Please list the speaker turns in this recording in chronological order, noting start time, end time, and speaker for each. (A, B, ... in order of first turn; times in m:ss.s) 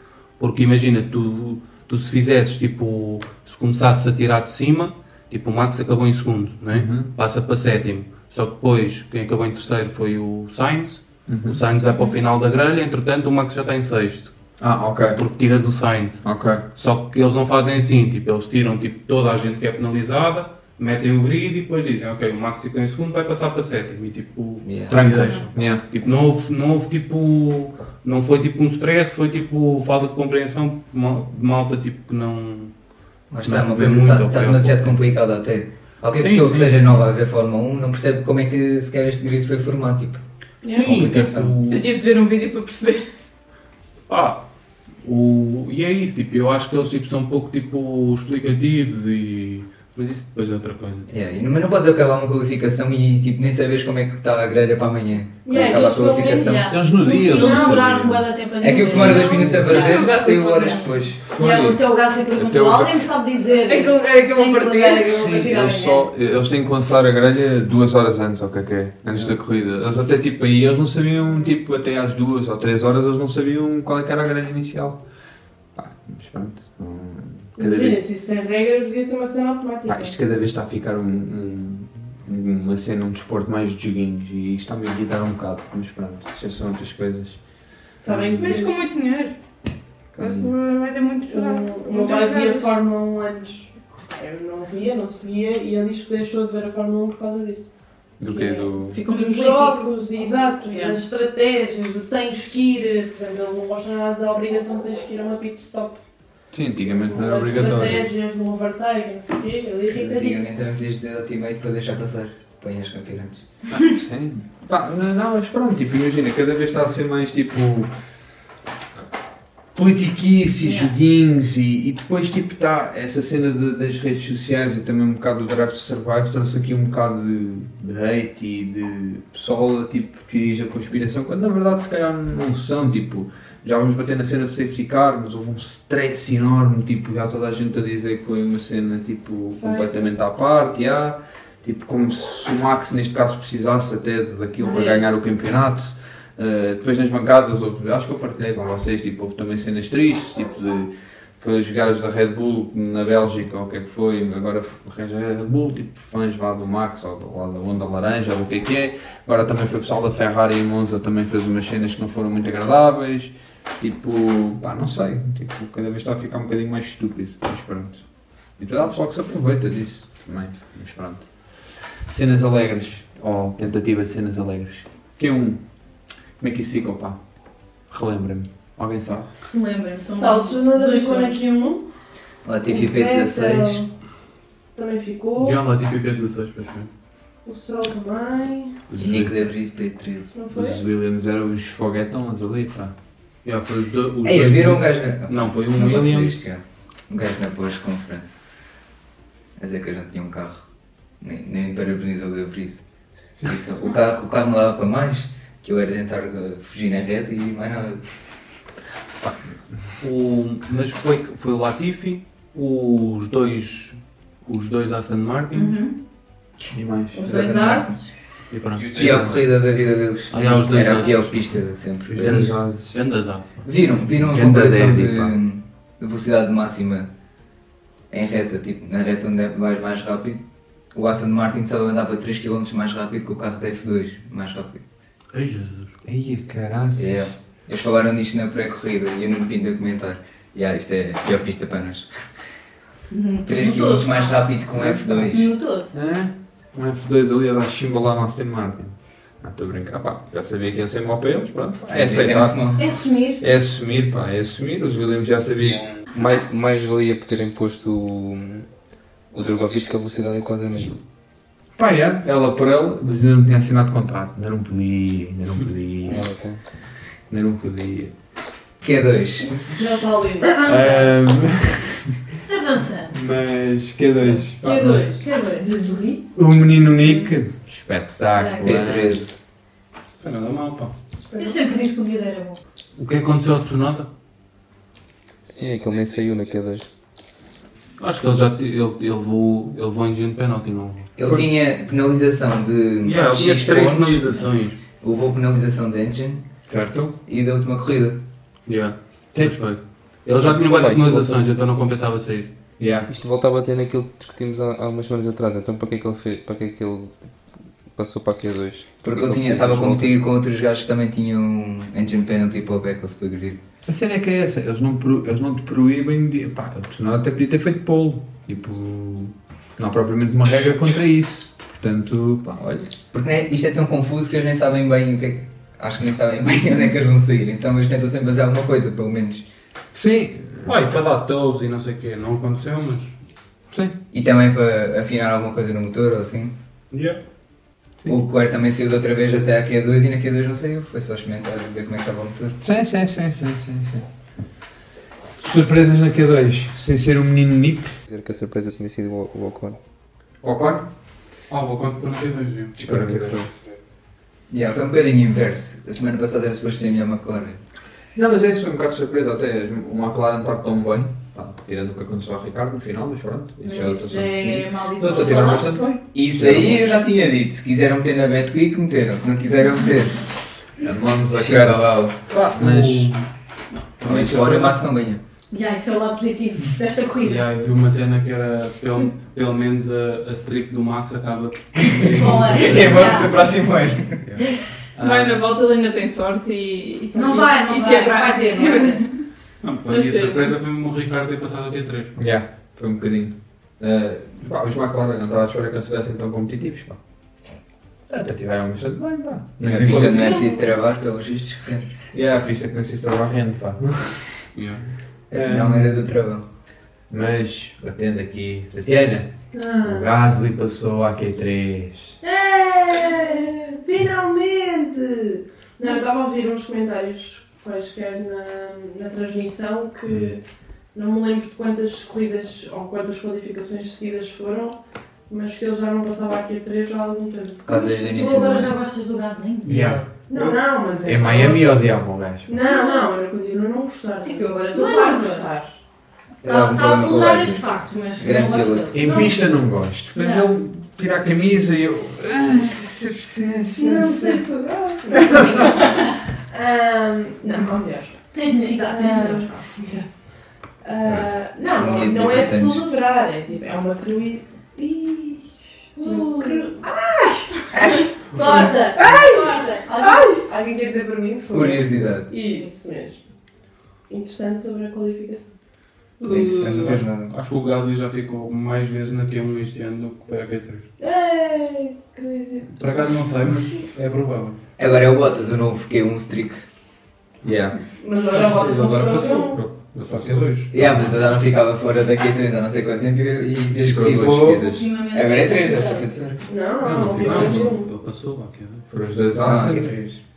0:00.4-0:14.3 A
0:06.7-0:07.1 B
0:11.3-0:11.6 B
0:11.9-0:12.2 C
0:14.6-0:15.2 B
0:15.1-0:32.7 A
0:16.2-0:16.6 B
0:24.6-0:25.0 D
0:24.9-0:25.8 B
0:33.3-0:40.2 D
0:33.4-0:35.0 A
0:36.1-0:36.8 A
0:40.6-0:41.8 A
0:40.8-0:41.6 D
0:41.7-0:43.1 E
0:44.1-0:44.4 A
0:45.0-0:51.1 A
0:51.1-0:56.7 D
0:55.4-0:59.2 F
0:56.3-1:06.1 C
0:56.7-0:58.2 B
0:58.6-1:01.2 D
0:59.4-0:59.8 B
0:59.6-1:00.8 E
1:01.3-1:03.0 B
1:03.6-1:05.5 E
1:05.1-1:15.0 B
1:15.7-1:18.0 B
1:17.6-1:20.2 F
1:19.8-1:27.4 B
1:28.0-1:28.7 F
1:28.0-1:28.5 B
1:28.3-1:29.4 E
1:30.1-1:32.7 E
1:30.2-1:30.5 B
1:31.3-1:46.0 F
1:31.9-1:32.6 C
1:38.2-1:39.0 B
1:38.9-1:39.9 C
1:40.7-1:41.0 C
1:46.5-1:48.1 B
1:47.0-1:50.5 F
1:49.9-1:53.4 D
1:53.7-1:57.9 B
1:59.7-2:48.0 B
2:00.6-2:00.9 C
2:19.6-2:20.1 F
2:24.6-2:25.0 F
2:48.6-2:55.6 B
2:56.4-2:57.2 B
2:57.9-2:59.3 B
2:59.5-3:01.4 C
3:00.2-3:01.8 F
3:02.4-3:03.8 D
3:02.6-3:03.9 F
3:04.7-3:05.6 F
3:05.4-3:06.9 A
3:07.4-3:08.8 F
3:08.9-3:09.3 B
3:09.0-3:10.3 D
3:10.3-3:10.8 F
3:10.5-3:12.9 B
3:13.4-3:16.4 A
3:14.2-3:18.4 D
3:19.6-3:20.6 D
3:21.2-3:22.8 D
3:23.4-3:28.0 D
3:30.0-3:35.8 A
3:35.5-3:35.9 C
3:36.7-3:37.4 B
3:37.2-3:38.1 C
3:37.2-3:37.9 F
3:37.2-3:38.0 D
3:38.5-3:39.4 A
3:38.8-3:39.4 G
3:38.9-3:42.5 D
3:40.3-3:41.4 A
3:42.1-3:43.0 B
3:42.2-3:43.6 A
3:43.6-3:47.1 D
3:44.1-3:45.4 B
3:48.1-3:54.8 D
3:55.3-3:56.0 A
3:56.0-3:57.3 B
3:57.0-4:02.3 D
4:03.1-4:04.5 C
4:03.4-4:05.5 D
4:04.7-4:05.3 B
4:05.3-4:05.9 C
4:05.9-4:12.8 B
4:11.9-4:12.8 D
4:12.8-4:13.4 C
4:13.4-4:15.8 B
4:15.6-4:18.7 G
4:19.3-4:21.0 G
4:21.8-4:26.3 B
4:26.0-4:26.6 G
4:27.3-4:28.1 B
4:28.8-4:29.7 D
4:29.7-4:31.0 F
4:30.4-4:31.1 C
4:30.6-4:32.2 B
4:32.4-4:33.3 C
4:33.1-4:35.1 B
4:34.6-4:36.2 F
4:34.8-4:36.2 C
4:36.3-4:39.3 B
4:38.3-4:38.9 C
4:38.6-4:39.4 D
4:40.2-4:40.9 A
4:41.3-4:41.6 F
4:41.4-4:42.6 C
4:43.0-4:44.1 A
4:45.4-4:46.9 G
4:48.0-4:51.1 A
4:51.2-4:54.4 D
4:51.2-4:51.5 B
4:53.0-4:54.8 A
4:55.0-4:56.4 D
4:56.7-4:57.2 B
4:57.2-4:58.2 D
4:58.7-5:02.5 A
4:59.3-4:59.6 B
5:00.4-5:01.3 B
5:02.8-5:03.1 B
5:03.1-5:07.2 G
5:07.9-5:10.3 G
5:09.0-5:13.6 D
5:13.8-5:22.9 B
5:23.1-5:29.4 D
5:29.9-5:30.7 B
5:30.6-5:33.1 A
5:33.7-5:34.0 B
5:34.1-5:36.6 D
5:36.9-5:37.2 A
5:38.1-5:42.6 D
5:42.6-5:44.1 B
5:45.4-5:48.0 B
5:48.1-5:49.8 G
5:50.4-5:50.9 B
5:51.5-5:52.8 A
5:52.8-5:53.4 B
5:52.8-5:53.5 G
5:54.5-5:57.6 D
5:58.1-6:06.9 B
6:03.6-6:06.0 C
6:06.1-6:10.3 D
6:10.8-6:13.1 B
6:11.2-6:12.1 D
6:12.6-6:13.3 A
6:14.0-6:15.2 D
6:14.0-6:14.8 B
6:14.2-6:14.6 A
6:15.5-6:17.5 C
6:17.2-6:23.3 A
6:22.0-6:23.4 C
6:22.0-6:24.3 D
6:24.2-6:25.5 A
6:25.0-6:29.2 E
6:27.1-6:29.1 C
6:29.6-6:32.2 A
6:29.9-6:30.5 E
6:32.2-6:37.0 B
6:38.1-6:40.5 B
6:39.6-6:41.9 D
6:40.2-6:40.5 C
6:42.1-6:44.5 B
6:44.5-6:44.9 A
6:45.3-6:46.1 B
6:45.3-6:46.4 D
6:47.1-6:52.2 B
6:49.5-6:50.1 F
6:52.2-7:00.4 F
7:00.9-7:08.6 F
7:07.6-7:08.7 D
7:08.2-7:09.9 C
7:09.6-7:12.6 B
7:09.6-7:10.0 A
7:10.2-7:15.8 F
7:12.6-7:13.1 C
7:14.2-7:15.5 C
7:16.4-7:19.1 D
7:16.4-7:19.4 C
7:18.9-7:24.4 B
7:19.0-7:19.5 F
7:20.2-7:20.5 C
7:23.8-7:30.1 F
7:28.3-7:29.7 C
7:30.8-7:43.2 F
7:31.7-7:32.9 D
7:36.0-7:36.7 C
7:38.3-7:40.2 C
7:41.5-7:42.3 D
7:44.1-7:45.5 F
7:46.2-7:46.9 E
7:46.3-7:47.3 D
7:46.3-7:50.9 A
7:51.0-7:53.1 F
7:52.7-7:54.6 A
7:54.8-7:56.6 D
7:57.4-7:57.8 B
7:58.0-7:59.6 F
7:58.3-8:01.0 A
7:59.5-8:01.3 B
8:00.7-8:06.4 D
8:03.7-8:04.9 B
8:04.6-8:06.1 C
8:06.5-8:07.9 F
8:06.8-8:07.7 B
8:06.9-8:08.9 A
8:08.9-8:09.9 B
8:09.4-8:10.2 D